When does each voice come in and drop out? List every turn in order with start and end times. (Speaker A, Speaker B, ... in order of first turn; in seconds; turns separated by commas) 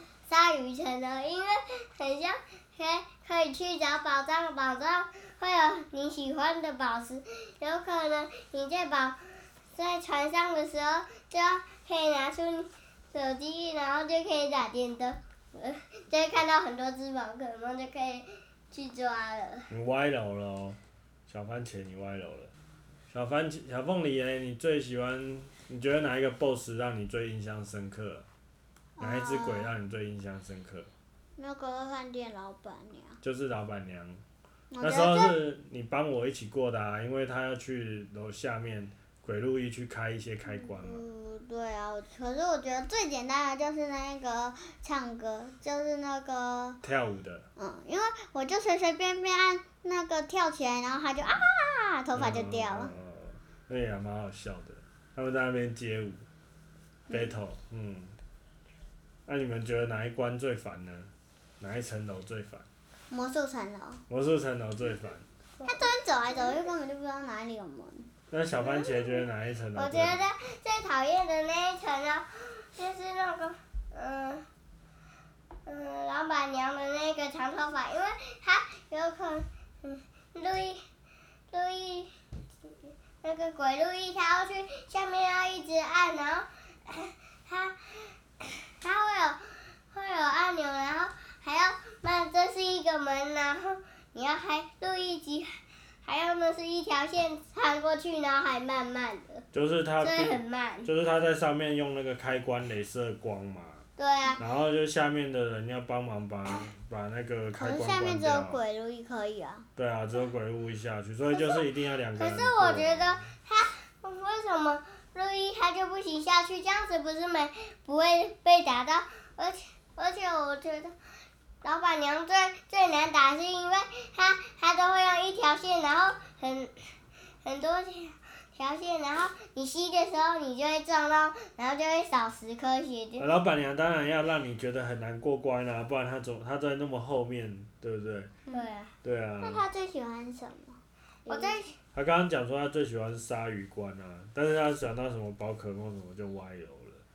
Speaker A: 0.3-9.2, Speaker A: 9.8-19.7, Speaker B: 19.7-22.5, Speaker B: 23.1-28.2, Speaker C: 29.0-29.7, Speaker B: 29.0-30.9, Speaker C: 31.4-33.2, Speaker B: 33.2-34.2, Speaker C: 34.7-35.4, Speaker B: 34.8-41.0, Speaker C: 40.5-46.8, Speaker B: 46.8-47.5, Speaker C: 47.6-52.9, Speaker B: 52.1-56.2, Speaker B: 57.1-58.1, Speaker B: 59.3-62.6, Speaker C: 63.1-64.0, Speaker B: 64.1-65.2, Speaker A: 65.6-65.9, Speaker C: 65.7-68.1, Speaker B: 68.3-70.2, Speaker A: 68.6-69.2, Speaker A: 69.8-74.5, Speaker A: 75.7-80.8, Speaker A: 81.5-82.1, Speaker A: 82.7-89.4, Speaker A: 89.9-99.5, Speaker B: 99.5-103.8, Speaker A: 100.0-100.9, Speaker A: 104.0-104.4, Speaker B: 104.4-108.6, Speaker C: 107.6-109.7, Speaker B: 109.8-113.2, Speaker A: 112.2-120.9, Speaker A: 121.6-126.7, Speaker A: 127.4-133.2, Speaker B: 133.2-138.3, Speaker A: 138.5-138.9, Speaker B: 139.0-139.7, Speaker C: 139.4-141.6, Speaker A: 141.3-141.8, Speaker B: 141.9-147.0